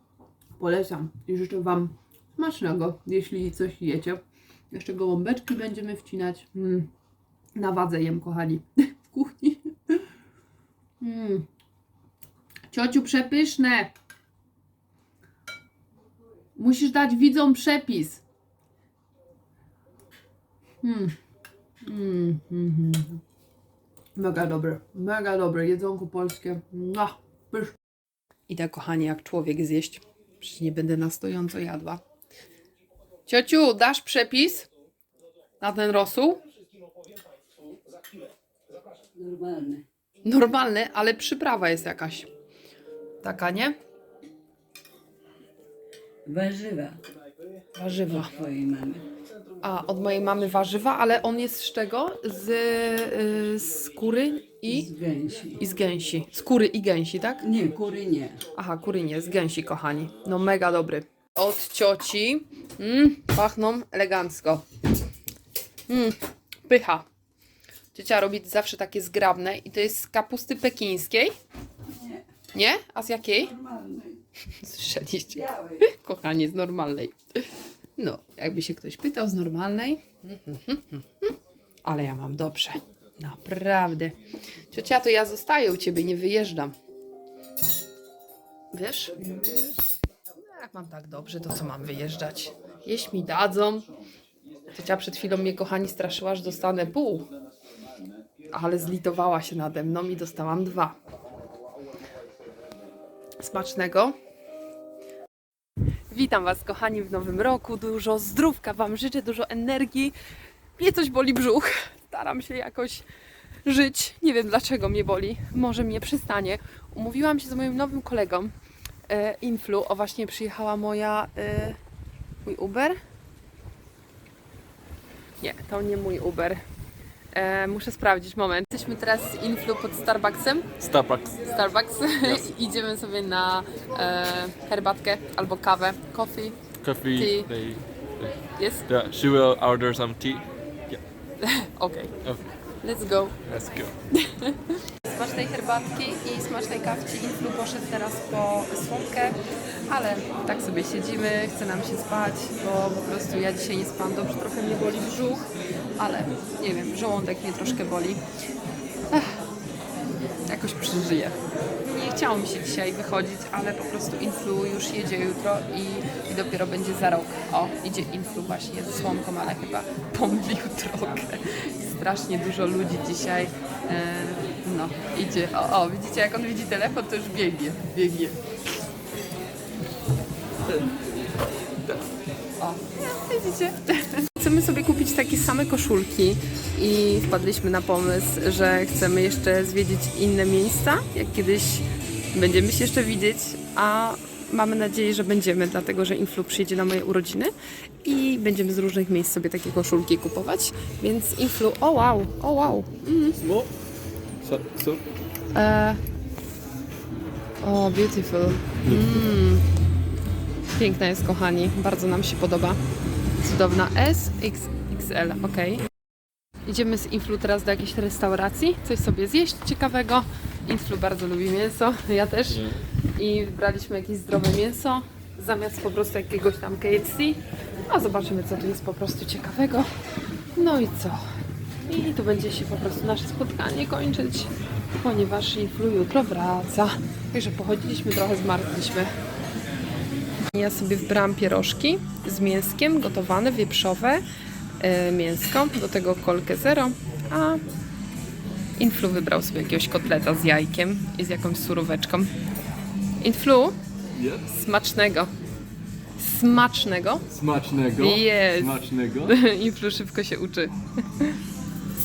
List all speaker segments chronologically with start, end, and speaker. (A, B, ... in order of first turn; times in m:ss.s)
0:00.6-0:06.9 A
0:07.6-0:10.1 A
0:11.0-0:11.5 A
0:12.7-0:13.9 A
0:16.6-0:18.2 A
0:20.8-0:21.2 A
0:21.8-0:23.2 A
0:24.2-0:27.8 A
0:28.5-0:32.0 A
0:33.3-0:34.7 A
0:35.6-0:36.4 A
0:39.2-0:39.9 B
0:40.2-0:42.3 A
0:43.2-0:43.8 A
0:46.3-0:47.0 B
0:47.8-0:48.3 A
0:48.1-0:49.1 B
0:49.6-0:54.9 A
0:54.7-0:55.6 B
0:55.5-0:57.5 A
0:57.4-0:58.4 B
0:58.6-1:04.7 A
1:05.9-1:07.1 A
1:07.9-1:11.4 A
1:12.0-1:12.2 B
1:12.5-1:13.6 A
1:13.5-1:14.2 B
1:14.5-1:24.2 A
1:15.4-1:15.8 B
1:24.7-1:26.7 A
1:28.7-1:29.5 A
1:30.4-1:33.9 A
1:34.7-1:37.3 A
1:38.5-1:41.0 A
1:43.4-1:44.2 A
1:46.1-1:50.2 A
1:50.8-1:53.1 A
1:53.6-1:58.5 A
1:59.1-2:01.8 A
2:02.4-2:03.0 A
2:05.4-2:06.6 A
2:07.3-2:10.7 A
2:10.8-2:11.4 C
2:11.4-2:16.6 A
2:12.2-2:12.5 C
2:16.8-2:21.0 C
2:17.1-2:17.5 A
2:18.6-2:18.9 A
2:21.4-2:22.1 A
2:22.8-2:23.4 A
2:23.5-2:23.9 C
2:24.1-2:38.2 A
2:39.1-2:39.4 A
2:40.5-2:58.4 A
3:00.7-3:01.0 C
3:02.6-3:23.4 A
3:23.4-3:23.7 C
3:24.4-3:25.0 C
3:25.5-3:26.0 A
3:27.6-3:29.7 A
3:30.7-3:32.8 A
3:33.4-3:35.9 A
3:36.6-3:49.9 A
3:42.5-3:42.8 C
3:50.6-3:51.3 A
3:51.9-3:59.1 A
4:00.5-4:04.2 A
4:04.8-4:07.6 A
4:08.8-4:12.3 A
4:13.2-4:13.8 A
4:14.2-4:14.4 C
4:14.4-4:15.3 A
4:16.2-4:17.3 A
4:17.3-4:19.3 C
4:18.0-4:21.4 A